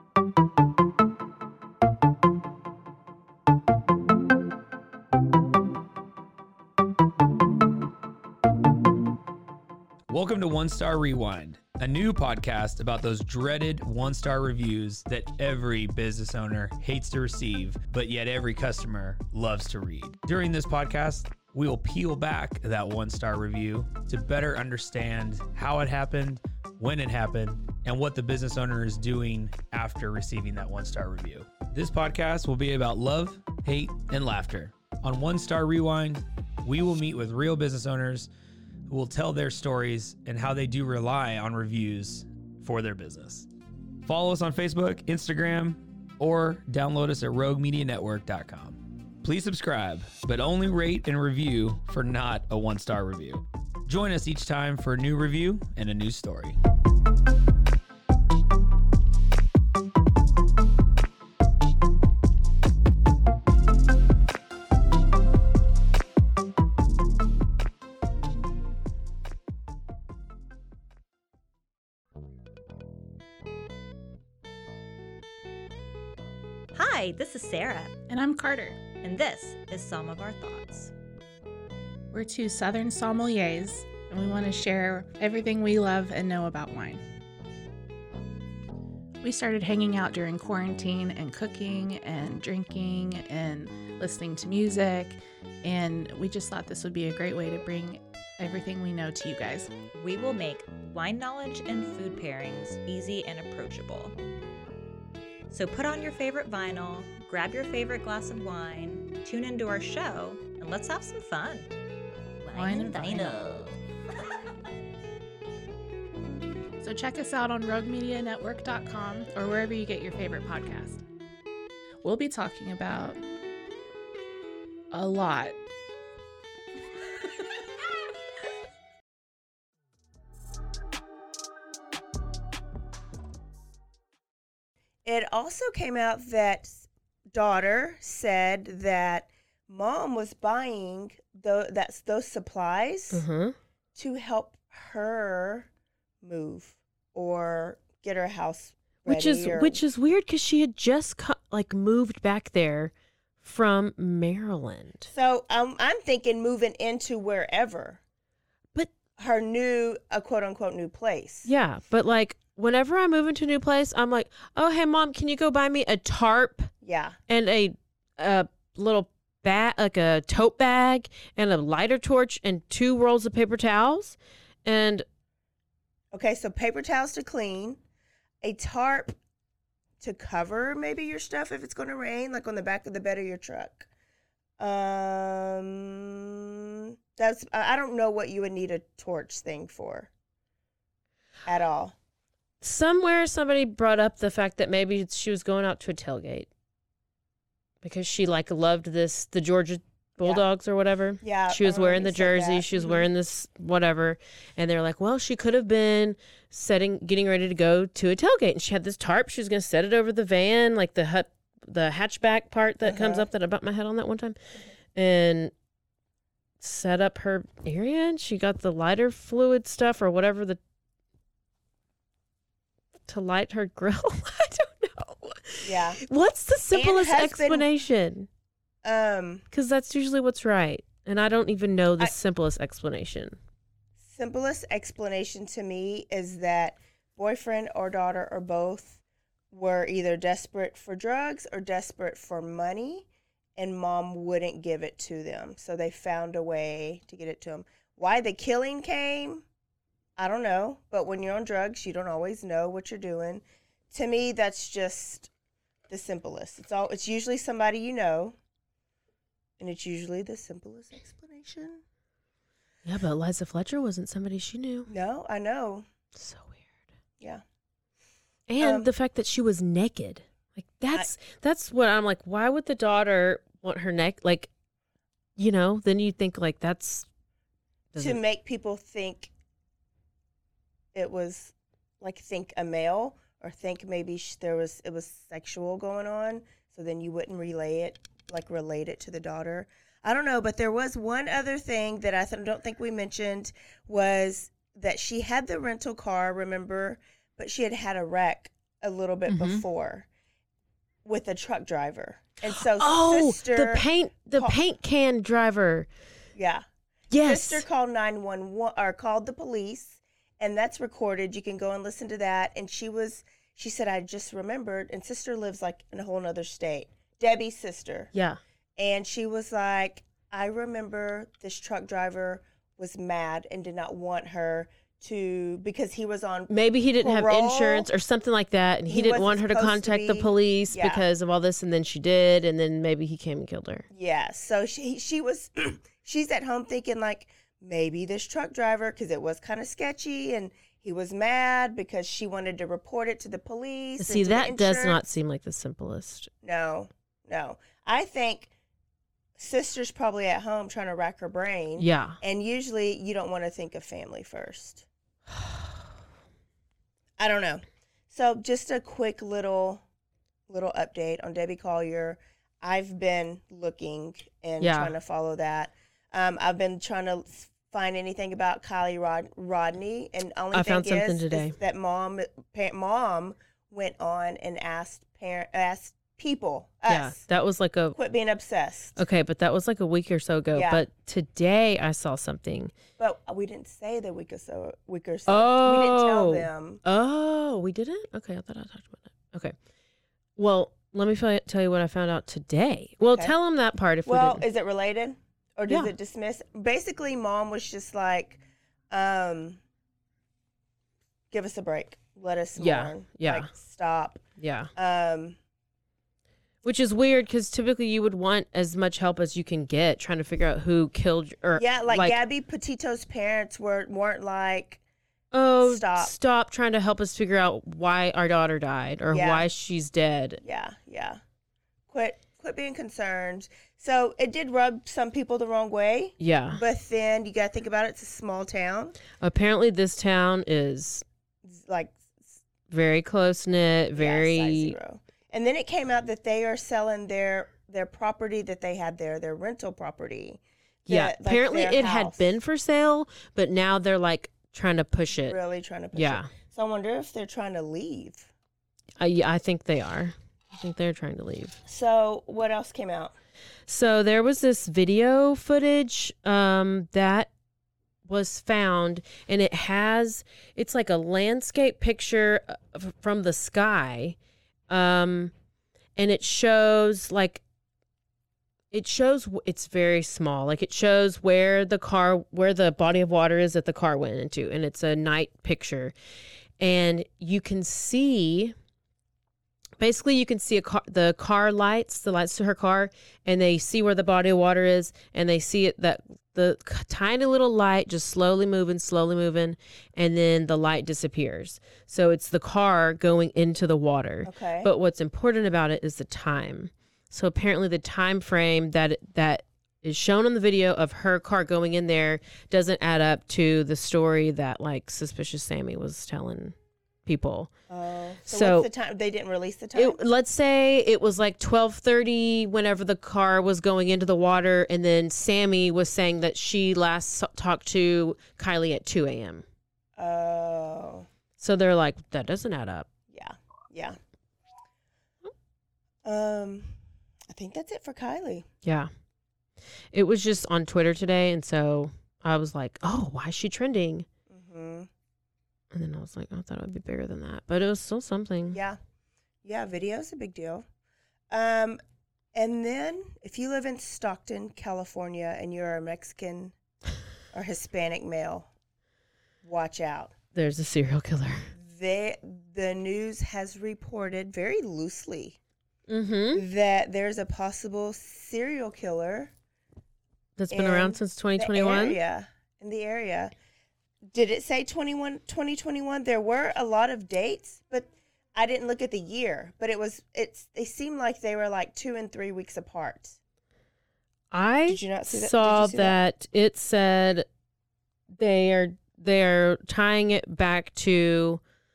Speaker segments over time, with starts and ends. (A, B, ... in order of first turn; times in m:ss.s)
0:10.1-0:38.3 A
0:38.9-0:43.5 A
0:44.0-0:56.6 A
1:16.7-1:18.0 B
1:18.1-1:18.9 C
1:18.9-1:20.9 B
1:22.1-1:27.0 C
1:29.2-1:39.7 C
1:39.9-1:44.2 B
1:45.5-1:51.8 B
1:52.4-1:53.8 B
1:52.5-1:53.4 C
1:56.8-2:01.0 C
2:02.0-2:03.2 C
2:04.9-2:05.6 C
2:15.0-2:23.2 D
2:23.1-2:23.6 E
2:23.9-2:25.7 D
2:26.2-2:29.8 D
2:29.0-2:35.1 E
2:35.1-2:38.0 D
2:39.2-2:41.5 D
2:41.4-2:46.7 E
2:46.8-2:47.2 D
2:47.3-2:55.0 E
2:56.1-2:57.8 D
2:58.4-2:59.1 D
3:00.0-3:03.9 D
3:04.6-3:10.1 D
3:11.4-3:11.9 D
3:12.6-3:16.5 E
3:17.8-3:34.4 E
3:21.2-3:23.1 D
3:32.8-3:33.3 D
3:34.9-3:35.5 E
3:36.6-3:40.6 E
3:43.1-3:48.3 E
3:45.6-3:46.0 D
3:46.7-3:47.7 D
3:48.8-3:49.4 D
3:49.5-3:53.4 E
3:54.0-3:59.0 D
3:59.5-4:09.4 D
4:10.2-4:15.3 D
4:15.9-4:18.4 D
4:19.6-4:21.8 D
4:22.8-4:24.9 E
4:24.9-4:25.8 D
4:26.1-4:26.8 E
4:28.5-4:34.5 E
4:28.6-4:28.9 D
4:35.4-4:37.0 E
4:37.9-4:38.2 E
4:38.0-4:39.3 D
4:40.9-5:00.1 D
4:59.3-4:59.6 E
5:01.0-5:04.6 D
5:02.5-5:05.9 E
5:06.3-5:06.6 D
5:07.1-5:07.6 E
5:07.2-5:18.1 D
5:18.1-5:18.4 E
5:18.8-5:27.9 D
5:26.5-5:33.8 E
5:28.9-5:31.0 D
5:33.9-5:45.0 D
5:44.0-5:46.3 E
5:46.4-5:48.5 D
5:49.4-5:54.9 D
5:51.8-5:52.2 E
5:57.2-5:59.8 D
6:00.5-6:17.2 D
6:04.6-6:04.9 E
6:10.5-6:11.6 E
6:16.9-6:18.0 E
6:17.9-6:19.0 D
6:19.0-6:22.7 E
6:20.5-6:20.9 D
6:23.0-6:26.8 D
6:25.3-6:29.5 E
6:30.4-6:34.4 E
6:34.0-6:39.6 D
6:35.7-6:35.9 E
6:41.3-6:44.2 D
6:42.6-6:43.5 E
6:44.4-6:44.7 E
6:44.8-6:45.4 D
6:46.6-6:52.2 E
6:51.6-6:54.8 D
6:55.3-7:00.4 E
6:55.6-6:56.1 D
6:59.1-6:59.5 D
7:00.4-7:01.2 D
7:01.9-7:09.0 D
7:06.2-7:06.6 E
7:09.2-7:11.0 E
7:11.4-7:12.4 D
7:12.7-7:14.8 E
7:14.0-7:22.4 D
7:20.9-7:25.4 E
7:25.1-7:28.3 D
7:25.9-7:26.3 E
7:29.0-7:31.6 E
7:31.6-7:33.2 D
7:33.7-7:37.3 E
7:38.0-7:44.2 E
7:44.7-7:45.3 E
7:46.0-7:47.4 E
7:48.7-7:55.9 E
7:56.6-7:58.5 E
7:59.8-8:26.5 E
8:14.2-8:14.7 D
8:27.0-8:27.5 E
8:27.7-8:30.0 D
8:28.2-8:28.7 E
8:29.7-8:39.4 E
8:40.0-8:41.1 D
8:41.4-8:42.9 E
8:43.1-8:44.0 D
8:46.0-8:46.8 D
8:47.3-8:48.4 D
8:48.6-8:48.9 E
8:49.9-8:54.0 E
8:54.3-8:54.9 D
8:55.7-8:58.6 E
8:58.5-8:58.8 D
8:59.4-9:00.6 D
9:01.3-9:01.8 D
9:02.3-9:06.5 D
9:07.3-9:08.5 D
9:09.4-9:10.1 D
9:10.3-9:11.5 E
9:11.5-9:15.4 D
9:15.9-9:16.4 E
9:16.3-9:19.3 D
9:20.4-9:22.0 E
9:20.5-9:23.3 D
9:24.1-9:33.2 D
9:34.3-9:37.3 E
9:34.7-9:36.0 D
9:38.2-9:41.4 E